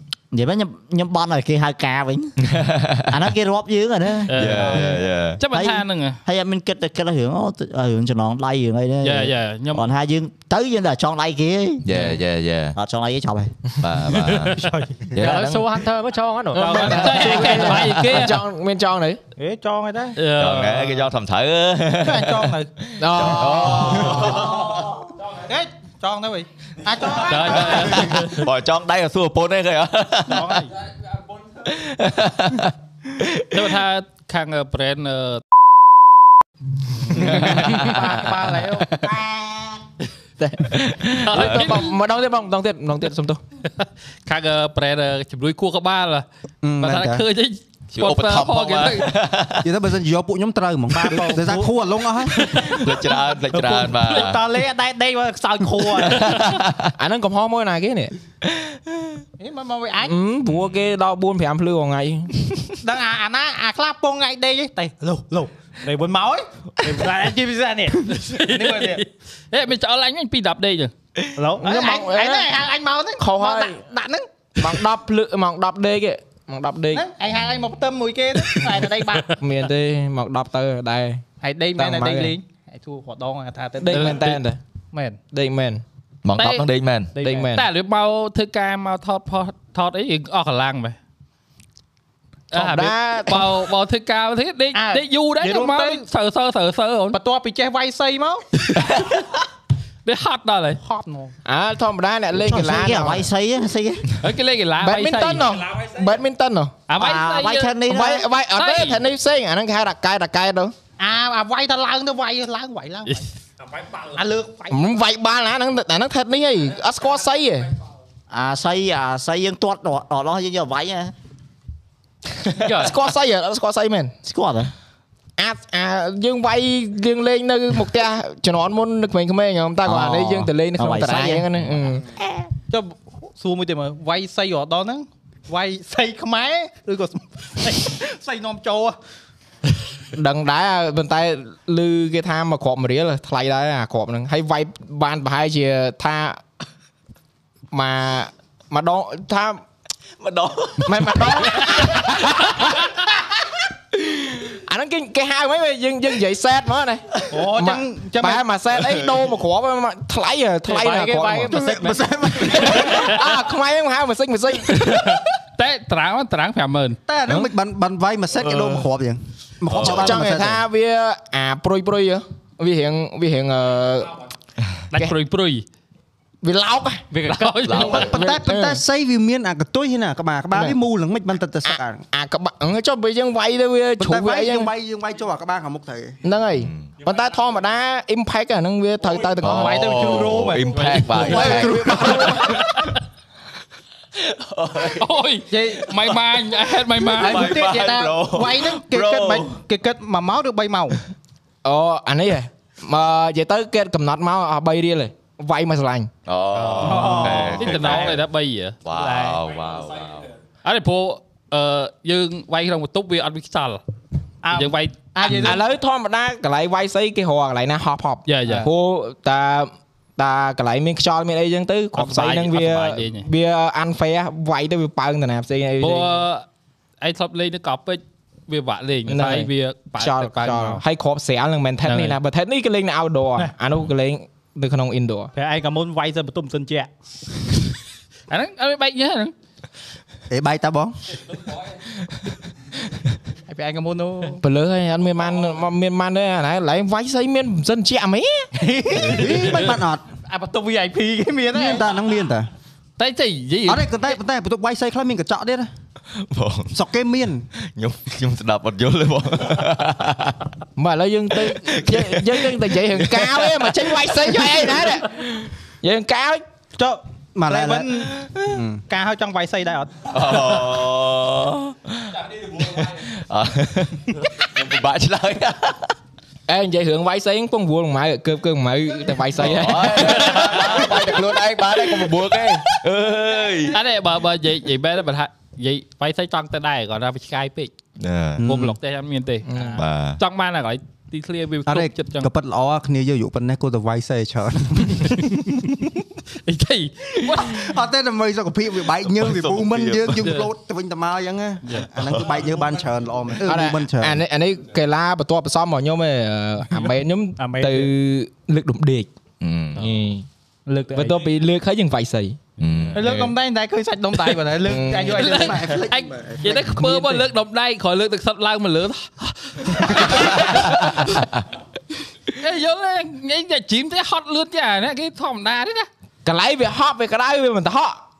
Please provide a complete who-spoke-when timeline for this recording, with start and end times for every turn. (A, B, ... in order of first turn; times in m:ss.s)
0:00.3-0:02.4 A
0:02.4-0:03.3 B
0:03.1-0:12.0 A
0:04.3-0:06.2 C
0:04.3-0:05.4 B
0:09.0-0:09.9 C
0:11.8-0:12.8 B
0:12.8-0:13.7 A
0:13.8-0:15.8 B
0:14.5-0:15.1 D
0:15.2-0:17.8 E
0:16.5-0:19.2 F
0:16.5-0:17.6 D
0:16.7-0:18.4 C
0:19.4-0:20.2 D
0:20.2-0:21.1 C
0:20.4-0:25.0 B
0:22.0-0:22.7 D
0:23.0-0:24.1 F
0:24.2-0:24.7 D
0:25.3-0:28.2 D
0:27.1-0:28.5 C
0:27.6-0:30.5 B
0:30.2-0:30.7 D
0:31.6-0:33.7 B
0:33.5-0:35.4 C
0:37.1-0:38.5 B
0:37.3-0:39.1 D
0:40.4-0:43.4 F
0:40.7-0:41.8 B
0:41.3-0:42.0 C
0:43.8-0:46.2 C
0:46.6-0:47.2 G
0:46.8-0:49.1 C
0:47.9-0:49.7 B
0:49.6-0:52.4 G
0:50.9-0:56.4 D
0:52.6-0:54.5 B
0:55.9-0:56.9 B
0:57.0-0:58.1 F
0:58.4-0:59.2 B
0:59.4-1:00.2 D
1:00.0-1:02.6 F
1:02.8-1:09.0 D
1:08.1-1:10.9 C
1:11.4-1:14.8 D
1:11.6-1:12.5 F
1:13.2-1:13.8 F
1:14.6-1:17.1 F
1:16.9-1:19.4 D
1:19.4-1:21.2 F
1:21.4-1:24.2 D
1:21.8-1:22.3 F
1:23.8-1:24.6 F
1:23.9-1:24.4 C
1:24.9-1:25.2 D
1:25.3-1:25.8 F
1:26.2-1:27.2 B
1:26.4-1:26.7 C
1:27.2-1:27.5 D
1:27.2-1:27.6 F
1:27.5-1:31.0 C
1:32.5-1:37.2 C
1:32.5-1:33.5 F
1:34.7-1:36.0 D
1:37.1-1:38.4 D
1:40.0-1:40.8 C
1:40.8-1:41.3 D
1:41.4-1:43.3 F
1:42.4-1:44.1 A
1:44.2-1:45.6 C
1:44.8-1:46.7 F
1:46.9-1:47.8 C
1:46.9-1:48.2 A
1:47.9-1:50.7 F
1:48.5-1:49.0 C
1:51.0-1:53.2 D
1:54.0-1:54.8 D
1:54.7-1:57.7 F
1:58.3-2:01.1 A
2:02.6-2:04.1 F
2:04.2-2:04.7 A
2:05.4-2:12.0 F
2:09.8-2:11.5 A
2:12.7-2:19.0 D
2:20.1-2:26.4 F
2:27.7-2:29.6 F
2:30.2-2:32.5 B
2:30.8-2:32.4 F
2:33.9-2:41.6 F
2:37.3-2:38.4 D
2:38.9-2:39.2 B
2:40.6-2:42.0 E
2:41.5-2:43.0 G
2:42.4-2:45.2 F
2:44.9-2:47.0 C
2:47.1-2:50.6 G
2:48.5-2:48.8 B
2:49.7-2:50.2 B
2:49.7-2:54.2 F
2:54.9-2:55.6 C
2:56.4-2:57.1 F
2:57.1-2:57.7 E
2:57.2-2:58.1 C
2:57.6-2:58.1 B
2:57.8-3:02.0 G
2:57.9-2:58.8 F
3:01.6-3:04.7 F
3:04.0-3:06.2 G
3:06.2-3:10.0 F
3:06.6-3:06.9 B
3:09.4-3:13.0 B
3:09.5-3:12.2 D
3:10.7-3:11.0 C
3:11.2-3:12.6 F
3:11.4-3:12.0 G
3:14.2-3:15.1 B
3:15.0-3:17.6 C
3:15.5-3:15.9 D
3:17.0-3:21.0 D
3:17.2-3:19.6 B
3:21.6-3:26.1 F
3:26.2-3:28.2 B
3:26.5-3:28.8 C
3:26.8-3:28.2 D
3:28.8-3:30.3 B
3:28.9-3:29.4 D
3:30.6-3:33.8 C
3:34.4-3:35.6 D
3:34.5-3:35.5 C
3:35.3-3:46.2 F
3:38.3-3:38.7 C
3:41.9-3:43.2 C
3:45.8-3:46.4 C
3:47.0-3:50.8 C
3:49.1-3:55.3 F
3:51.8-3:52.2 C
3:55.3-3:56.9 D
3:58.3-3:59.3 C
4:00.3-4:01.0 G
4:03.5-4:04.4 D
4:04.4-4:08.5 F
4:08.6-4:09.6 D
4:08.9-4:10.0 G
4:10.2-4:11.9 D
4:11.5-4:12.5 G
4:13.0-4:13.9 C
4:13.6-4:15.7 G
4:16.2-4:16.7 B
4:16.7-4:17.5 G
4:17.6-4:20.5 B
4:20.8-4:26.4 F
4:21.4-4:24.9 B
4:26.8-4:28.1 D
4:27.3-4:27.9 G
4:28.1-4:28.6 B
4:28.4-4:28.8 G
4:28.9-4:30.0 D
4:30.1-4:35.9 B
4:36.5-4:41.0 F
4:39.3-4:43.8 B
4:40.3-4:40.7 C
4:43.7-4:47.7 C
4:48.0-4:48.5 B
4:48.4-4:48.8 G
4:48.4-4:52.3 C
4:49.4-4:49.8 F
4:49.8-4:50.2 B
4:51.6-4:55.7 G
4:56.4-4:57.8 C
4:57.3-5:04.2 G
4:59.1-5:00.3 B
5:00.2-5:00.5 C
5:03.4-5:09.1 F
5:07.4-5:07.9 D
5:09.4-5:09.8 B
5:09.7-5:10.3 F
5:10.7-5:11.2 D
5:10.9-5:12.4 F
5:12.6-5:13.2 B
5:12.9-5:15.6 D
5:14.6-5:15.2 F
5:15.1-5:21.2 C
5:15.2-5:16.8 G
5:16.8-5:17.2 F
5:22.3-5:25.9 C
5:26.2-5:28.0 F